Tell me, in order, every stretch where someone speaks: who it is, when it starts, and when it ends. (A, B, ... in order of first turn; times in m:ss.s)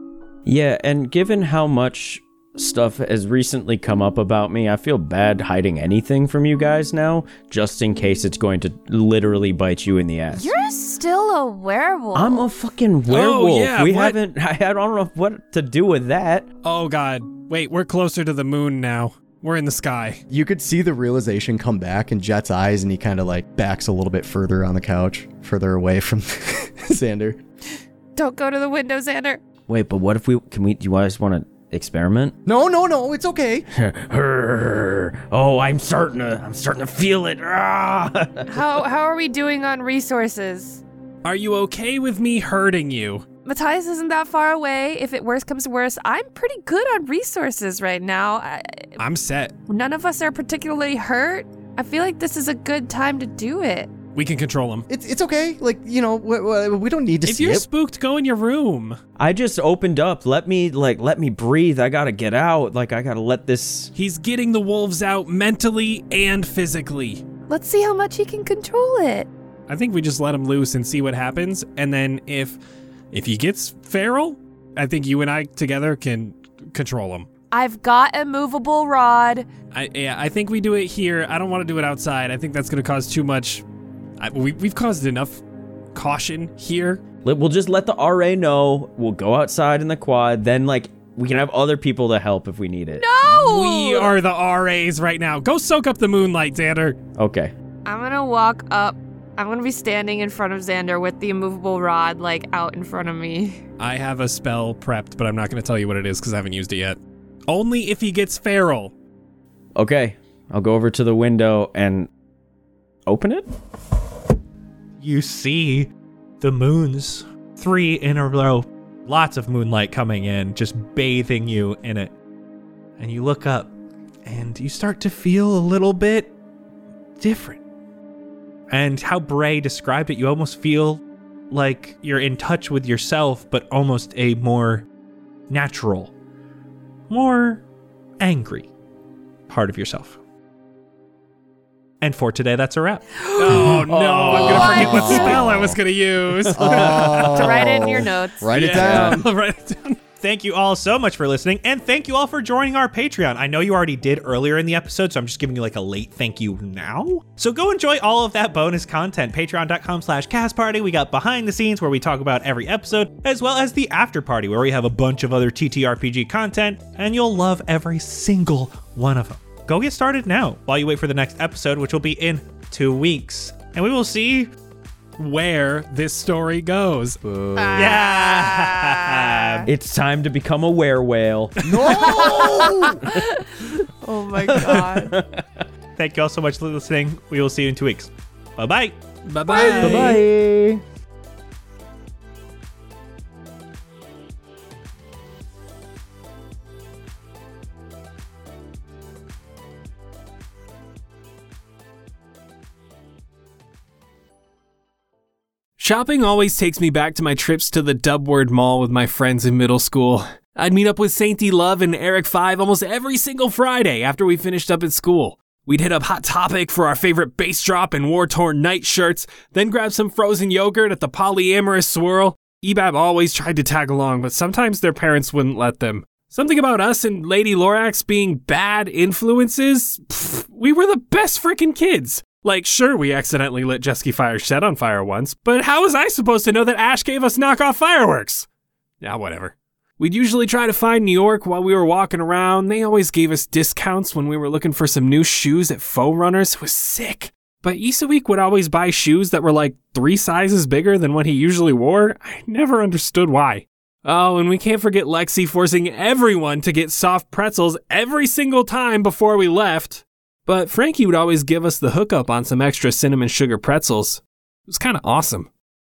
0:00.4-0:10.5 A
0:10.3-0:12.5 B
0:12.1-0:16.5 A
0:13.1-0:14.2 C
0:16.6-0:20.2 C
0:20.3-0:27.4 D
0:28.2-0:29.4 B
0:29.7-0:32.3 A
0:32.4-0:33.7 D
0:33.7-0:38.7 A
0:38.5-0:40.8 B
0:41.2-0:43.2 C
0:43.4-0:48.9 B
0:49.0-0:49.5 C
0:49.7-0:53.9 B
0:54.1-0:54.9 C
0:54.9-0:57.6 D
0:57.2-0:59.0 C
0:59.2-1:03.9 A
1:03.9-1:07.2 C
1:07.5-1:09.3 B
1:09.7-1:12.6 C
1:13.1-1:17.3 C
1:17.5-1:19.5 B
1:19.7-1:23.6 C
1:24.2-1:25.4 C
1:25.9-1:27.0 C
1:27.2-1:33.1 A
1:33.0-1:34.1 B
1:33.2-1:37.0 C
1:37.1-1:37.5 A
1:37.8-1:43.6 B
1:43.8-1:48.9 C
1:49.8-1:52.1 A
1:53.0-1:53.4 A
1:55.0-1:55.9 E
1:56.4-2:02.1 E
2:03.0-2:03.7 E
2:04.2-2:06.3 E
2:07.2-2:07.6 E
2:08.7-2:14.8 E
2:15.5-2:16.1 E
2:17.1-2:17.6 E
2:18.2-2:18.7 E
2:19.5-2:20.2 E
2:22.0-2:23.2 E
2:23.2-2:23.8 B
2:23.4-2:27.7 C
2:23.8-2:25.8 A
2:24.3-2:25.4 B
2:24.6-2:25.2 E
2:26.5-2:29.3 D
2:26.8-2:29.0 B
2:28.5-2:30.0 C
2:28.8-2:29.1 A
2:30.2-2:54.5 E
2:55.2-2:57.2 C
2:57.6-2:59.7 B
2:57.8-2:59.7 E
2:59.7-3:02.9 A
3:01.6-3:03.0 D
3:01.9-3:05.2 B
3:04.4-3:05.4 A
3:06.0-3:09.0 E
3:09.2-3:10.2 C
3:09.5-3:10.2 B
3:09.6-3:10.8 A
3:25.8-3:58.5 C
3:59.0-4:25.5 C